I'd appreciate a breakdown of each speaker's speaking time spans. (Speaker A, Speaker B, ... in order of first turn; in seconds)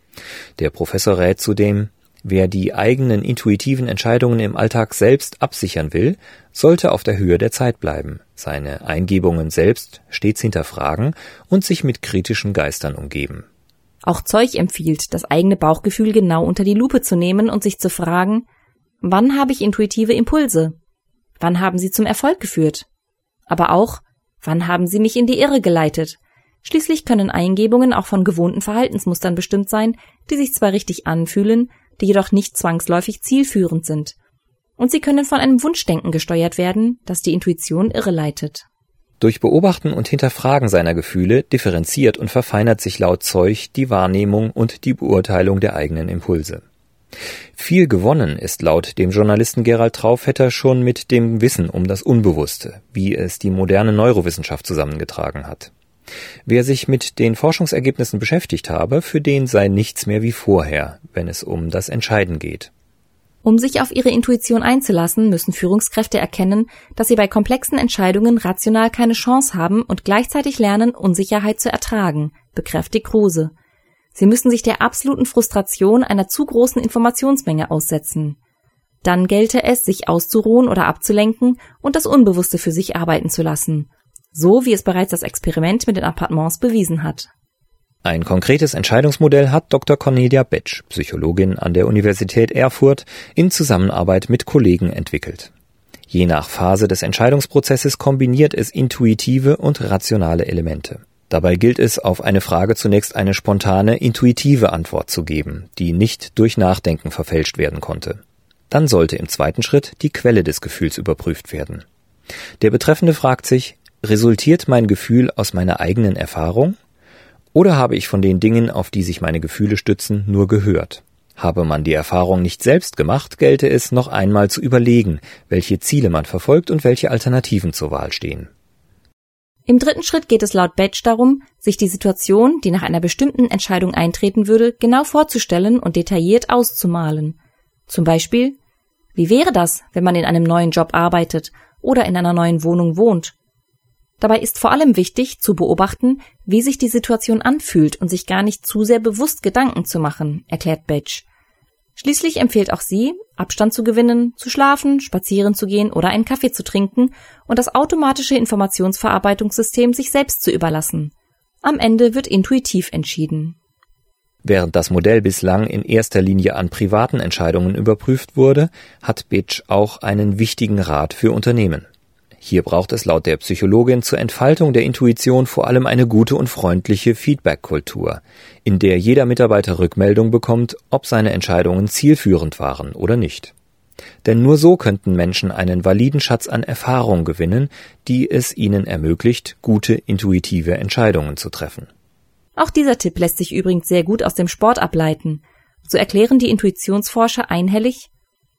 Speaker A: 0.6-13.4, 39.2-46.6, 47.5-55.7, 56.5-62.7, 88.0-95.5, 96.1-111.8, 112.6-116.8, 117.5-128.5, 164.4-171.9, 172.4-183.5, 184.2-191.9
Speaker B: 14.0-18.4, 19.0-20.8, 21.4-22.9, 23.5-34.1, 34.8-38.6, 63.4-73.5, 74.1-78.4, 79.0-87.3, 129.7-137.4, 137.9-138.6, 139.1-143.3, 144.2-151.2, 151.9-163.6, 192.6-198.1